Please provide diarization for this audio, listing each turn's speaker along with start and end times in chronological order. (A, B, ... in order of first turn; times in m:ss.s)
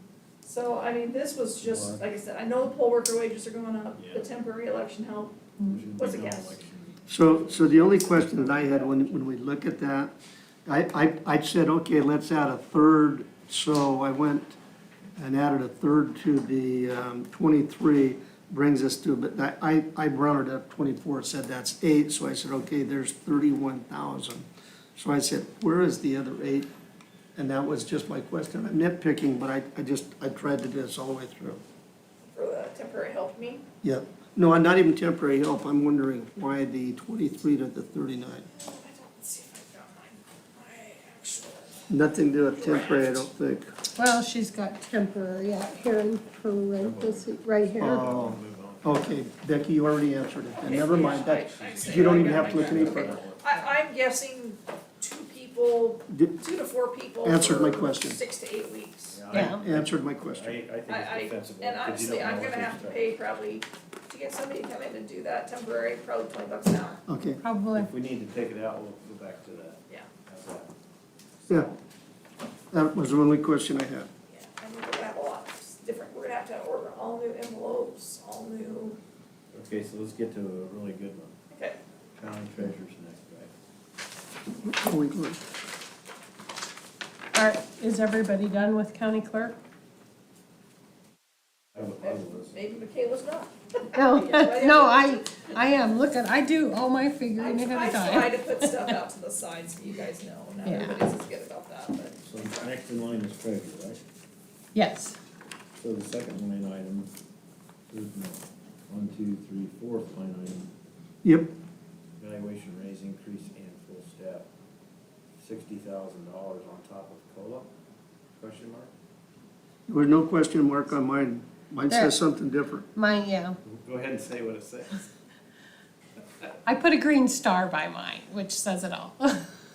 0:00.4-0:06.6 A
0:01.6-0:02.0 B
0:04.0-0:04.3 B
0:05.6-0:08.9 B
0:07.1-0:10.1 C
0:10.6-0:14.6 C
0:15.2-0:24.4 C
0:25.0-0:26.7 C
0:27.4-0:31.6 C
0:32.2-0:33.6 A
0:33.8-0:38.5 C
0:38.5-0:41.9 A
0:41.9-0:43.7 C
0:42.5-0:43.3 A
0:44.0-0:48.0 D
0:46.8-0:49.2 B
0:47.8-0:53.2 C
0:50.6-0:59.3 A
0:50.7-0:53.4 B
0:56.1-0:56.4 C
0:57.2-0:58.2 C
0:59.1-1:03.1 B
0:59.3-0:59.6 D
0:59.4-1:00.6 C
1:00.9-1:07.0 A
1:07.1-1:07.4 C
1:07.4-1:07.9 D
1:07.7-1:10.7 B
1:12.7-1:14.1 C
1:14.3-1:19.0 A
1:19.5-1:21.4 B
1:21.5-1:21.8 A
1:22.1-1:23.5 B
1:24.6-1:25.4 C
1:27.3-1:29.6 D
1:31.7-1:32.5 B
1:32.0-1:35.5 A
1:33.9-1:39.0 D
1:37.4-1:42.7 A
1:40.6-1:41.0 D
1:42.2-1:44.0 B
1:44.7-1:45.2 D
1:45.8-1:47.1 B
1:47.9-1:50.7 B
1:51.2-1:51.5 C
1:52.2-1:54.5 B
1:55.4-1:57.7 B
1:58.4-1:58.9 B
1:59.9-2:02.9 C
2:01.9-2:02.2 D
2:02.9-2:03.6 D
2:03.6-2:05.1 B
2:06.6-2:09.5 D